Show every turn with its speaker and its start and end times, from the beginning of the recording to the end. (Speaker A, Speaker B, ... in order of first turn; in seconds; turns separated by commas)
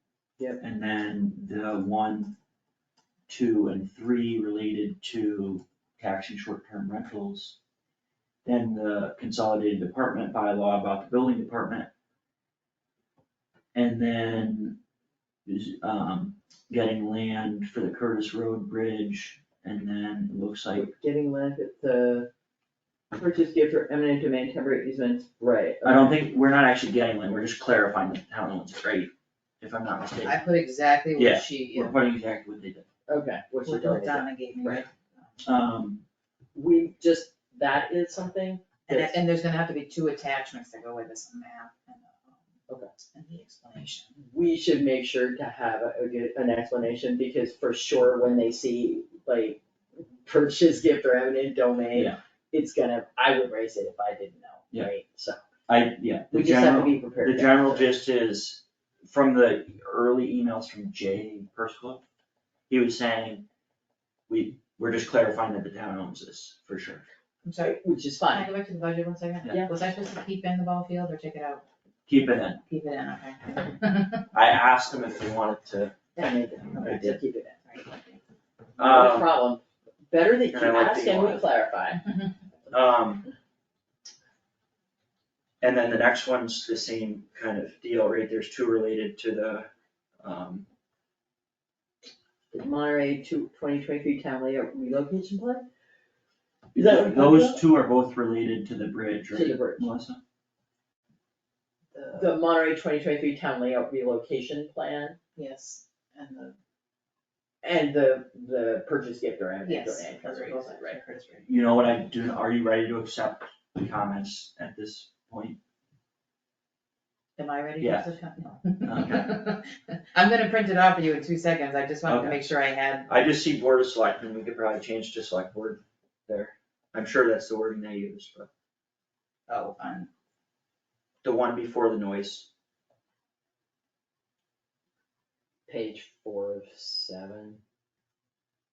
Speaker A: 0.6-2.4, Speaker A: 3.3-7.5, Speaker A: 8.4-11.9, Speaker A: 13.7-14.8, Speaker A: 15.4-20.9, Speaker B: 20.7-22.3, Speaker B: 23.1-26.2, Speaker A: 25.8-30.4, Speaker C: 30.2-32.0, Speaker A: 31.1-32.9, Speaker B: 33.1-34.9, Speaker C: 33.6-35.4, Speaker A: 35.4-36.0, Speaker B: 36.5-39.2, Speaker C: 38.9-42.3, Speaker C: 43.1-44.1, Speaker B: 44.2-55.4, Speaker A: 51.9-52.2, Speaker A: 55.7-62.0, Speaker B: 56.3-57.9, Speaker A: 62.7-63.5, Speaker A: 64.3-67.0, Speaker C: 67.4-71.6, Speaker B: 67.6-68.5, Speaker A: 72.1-72.6, Speaker C: 72.7-74.3, Speaker A: 74.3-76.0, Speaker B: 76.2-77.6, Speaker A: 76.7-77.2, Speaker C: 77.7-78.2, Speaker A: 78.8-79.4, Speaker B: 78.8-82.0, Speaker A: 80.5-81.5, Speaker A: 82.7-83.2, Speaker A: 85.6-89.7, Speaker A: 90.2-90.7, Speaker B: 92.5-95.7, Speaker B: 96.7-97.6, Speaker A: 96.7-100.2, Speaker B: 99.3-99.9, Speaker C: 101.9-102.3, Speaker B: 102.2-105.2, Speaker C: 105.3-106.5, Speaker B: 107.6-111.0, Speaker C: 109.6-111.5, Speaker A: 111.5-115.6, Speaker C: 117.4-123.1, Speaker A: 117.8-118.1, Speaker A: 118.8-119.4, Speaker A: 122.0-122.4, Speaker A: 123.1-128.5, Speaker C: 129.5-130.1, Speaker A: 131.2-132.5, Speaker B: 135.7-137.6